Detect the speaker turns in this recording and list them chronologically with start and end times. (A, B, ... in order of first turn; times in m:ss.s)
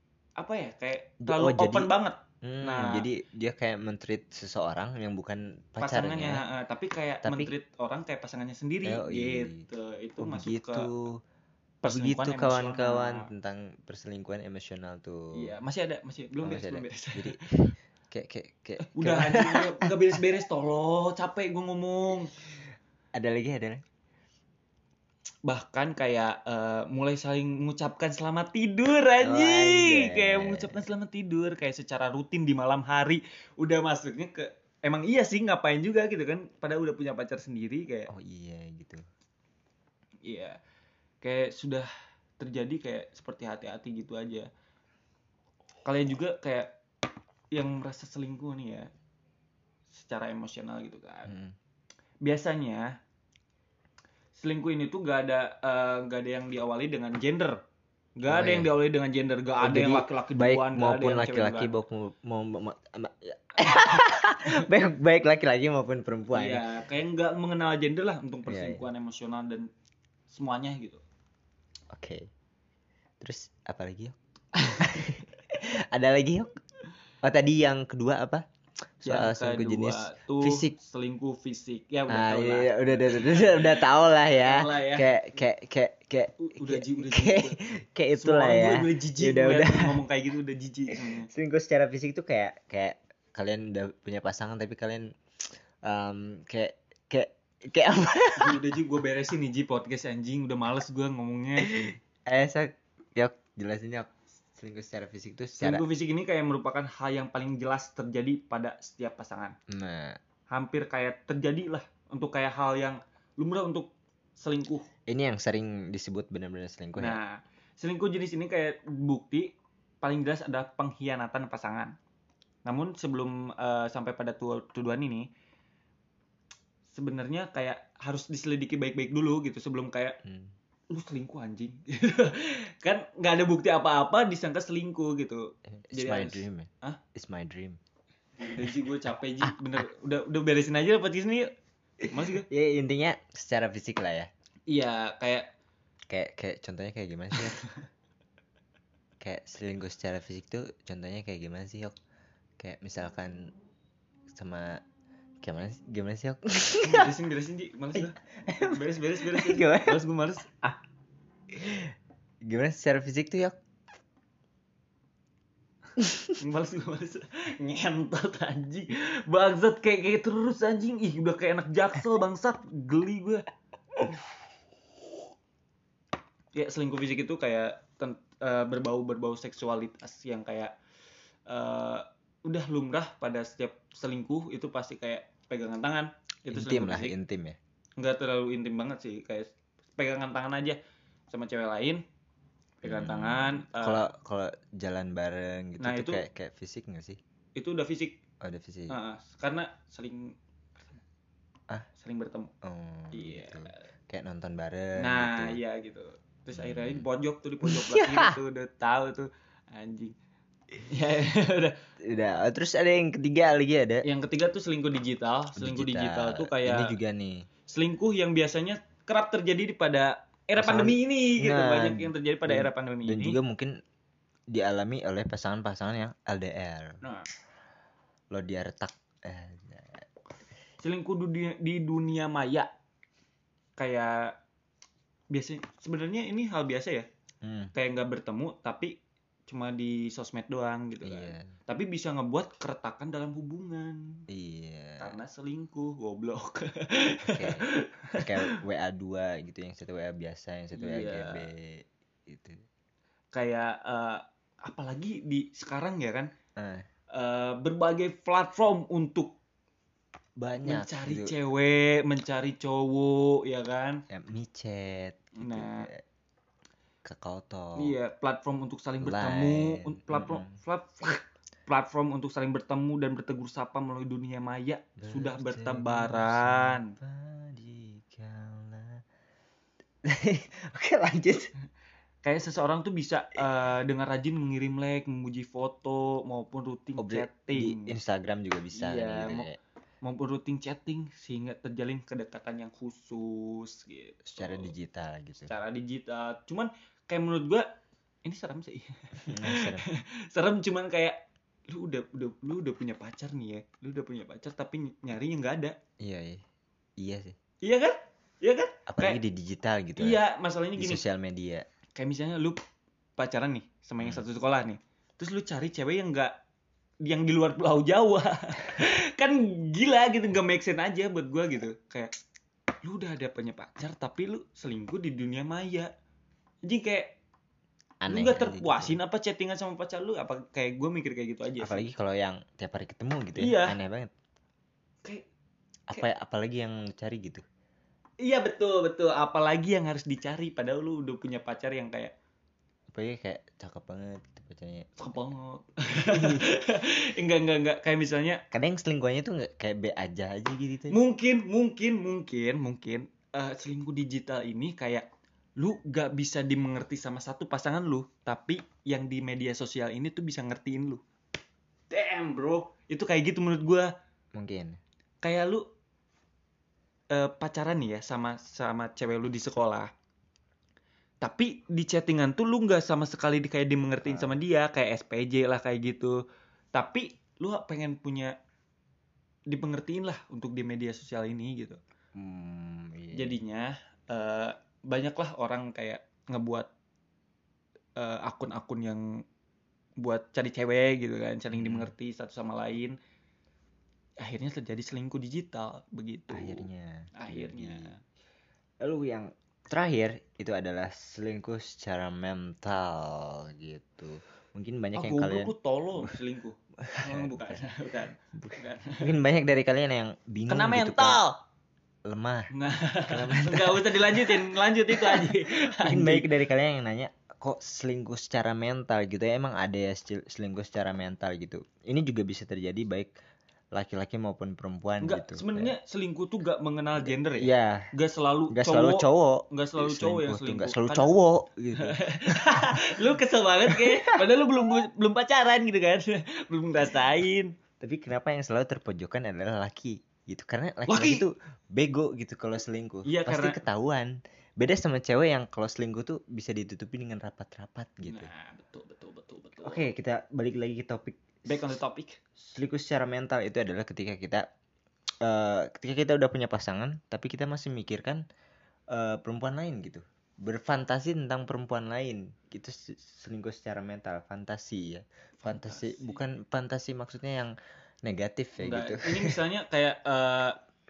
0:00.4-0:03.1 A
0:01.2-0:01.9 B
0:02.4-0:06.4 B
0:05.8-0:10.9 A
0:07.2-0:07.5 B
0:08.8-0:09.7 B
0:10.2-0:11.2 B
0:11.8-0:13.3 A
0:11.8-0:15.5 B
0:15.3-0:17.7 A
0:16.4-0:20.4 B
0:18.8-0:22.3 A
0:23.1-0:23.8 B
0:25.4-0:38.1 A
0:29.2-0:30.8 B
0:38.1-0:39.0 B
0:40.2-0:40.6 A
0:41.2-0:44.5 A
0:45.8-0:46.7 A
0:47.5-0:48.9 A
0:49.9-0:51.3 A
0:51.3-0:51.5 B
0:52.2-0:53.0 A
0:54.4-0:57.6 A
0:58.2-1:01.7 A
0:58.2-0:58.7 B
0:59.6-1:06.6 B
1:06.3-1:09.7 A
1:08.5-1:08.8 B
1:10.3-1:11.0 A
1:11.9-1:12.3 B
1:13.2-1:14.2 B
1:14.7-1:16.6 B
1:17.2-1:18.4 B
1:19.0-1:25.2 A
1:19.0-1:20.7 B
1:22.1-1:30.0 B
1:26.4-1:27.6 A
1:28.2-1:31.3 A
1:30.9-1:35.2 B
1:35.8-1:38.6 B
1:38.4-1:41.9 A
1:41.6-1:45.8 B
1:45.6-1:49.6 A
1:49.7-1:50.2 B
1:50.5-1:54.9 A
1:55.1-1:57.2 B
1:57.0-2:01.9 A
2:02.6-2:05.3 A
2:06.9-2:10.2 A
2:10.2-2:10.5 B
2:10.9-2:17.0 A
2:15.7-2:17.8 B
2:18.4-2:21.5 A
2:22.0-2:24.3 B
2:22.1-2:22.5 A
2:24.7-2:25.5 A
2:26.1-2:27.6 B
2:29.2-2:32.0 B
2:32.6-2:33.5 B
2:34.3-2:34.8 B
2:35.4-2:37.1 B
2:36.8-2:40.5 A
2:37.9-2:40.0 B
2:41.5-2:41.9 B
2:42.4-2:43.6 B
2:46.3-2:53.4 A
2:56.5-3:00.7 A
3:01.5-3:07.2 A
3:06.5-3:07.6 B
3:08.0-3:10.8 A
3:11.3-3:12.0 A
3:12.8-3:14.1 A
3:12.8-3:17.2 B
3:15.8-3:16.2 A
3:17.6-3:18.2 A
3:18.4-3:19.0 B
3:18.9-3:20.4 A
3:22.0-3:22.5 A
3:22.6-3:25.6 B
3:23.1-3:23.8 A
3:25.0-3:30.1 A
3:26.5-3:27.0 B
3:27.6-3:28.4 B
3:30.8-3:31.8 A
3:32.0-3:34.0 B
3:34.0-3:36.9 A
3:35.5-3:37.5 B
3:37.7-3:43.4 A
3:40.6-3:43.7 B
3:44.5-3:47.0 B
3:47.0-3:47.3 A
3:48.3-3:50.0 B
3:50.8-3:52.7 A
3:53.8-3:54.3 A
3:55.3-3:57.1 A
3:57.4-3:57.7 B
3:57.7-3:58.9 A
3:59.5-4:04.2 A
4:01.0-4:01.5 B
4:04.3-4:05.1 B
4:05.0-4:08.6 A
4:07.3-4:07.6 B
4:08.2-4:12.6 B
4:10.8-4:11.5 A
4:13.3-4:16.3 A
4:16.6-4:16.8 B
4:17.1-4:19.4 A
4:20.4-4:21.3 B
4:20.6-4:24.0 A
4:24.1-4:26.0 B
4:25.3-4:25.9 A
4:27.0-4:28.0 B
4:27.8-4:36.9 A
4:29.0-4:30.6 B
4:35.0-4:39.0 B
4:40.0-4:41.5 B
4:42.2-4:47.9 A
4:47.0-4:49.6 B
4:48.7-4:49.5 A
4:50.0-4:54.7 A
4:54.3-4:55.5 B
4:55.4-4:57.7 A
4:58.2-5:05.8 A
4:59.3-4:59.8 B
5:06.0-5:06.4 B
5:07.0-5:07.4 B
5:07.6-5:09.2 A
5:08.9-5:10.2 B
5:10.0-5:11.0 A
5:10.8-5:11.6 B
5:12.0-5:12.6 A
5:13.2-5:16.3 A
5:17.0-5:22.1 A
5:22.8-5:25.9 A
5:26.6-5:27.2 A
5:28.0-5:29.0 B
5:28.1-5:31.8 A
5:31.6-5:34.1 B
5:33.3-5:33.8 A
5:35.9-5:37.4 B
5:38.2-5:42.1 A
5:42.9-5:45.0 B
5:45.0-5:48.4 A
5:45.9-5:46.4 B
5:48.5-5:51.0 B
5:50.9-5:55.0 A
5:55.6-6:01.0 A
6:01.9-6:03.9 A
6:04.3-6:04.8 B
6:05.2-6:05.7 A
6:07.1-6:09.9 A
6:11.2-6:16.2 A
6:14.0-6:14.4 B
6:16.7-6:18.4 A
6:19.5-6:21.8 A
6:22.1-6:23.4 B
6:23.1-6:26.7 A
6:28.0-6:29.2 A
6:30.0-6:33.0 A
6:31.5-6:31.9 B
6:34.2-6:38.0 A
6:36.3-6:37.9 B
6:38.8-6:46.2 B
6:44.9-6:49.1 A
6:46.8-6:47.7 B
6:48.3-6:51.2 B
6:50.5-6:51.4 A
6:52.0-6:52.5 B
6:52.5-6:56.3 A
6:53.1-7:03.1 B
7:03.7-7:05.7 B
7:05.0-7:11.1 A
7:07.0-7:07.9 B
7:08.5-7:13.0 B
7:11.8-7:17.6 A
7:13.7-7:14.2 B
7:17.8-7:28.3 B
7:20.9-7:21.3 A
7:23.0-7:23.6 A
7:28.0-7:29.9 A
7:29.6-7:31.7 B
7:31.4-7:32.2 A
7:32.4-7:34.5 B
7:35.2-7:38.2 B
7:38.9-7:49.4 B
7:45.4-7:46.2 A
7:48.6-7:50.6 A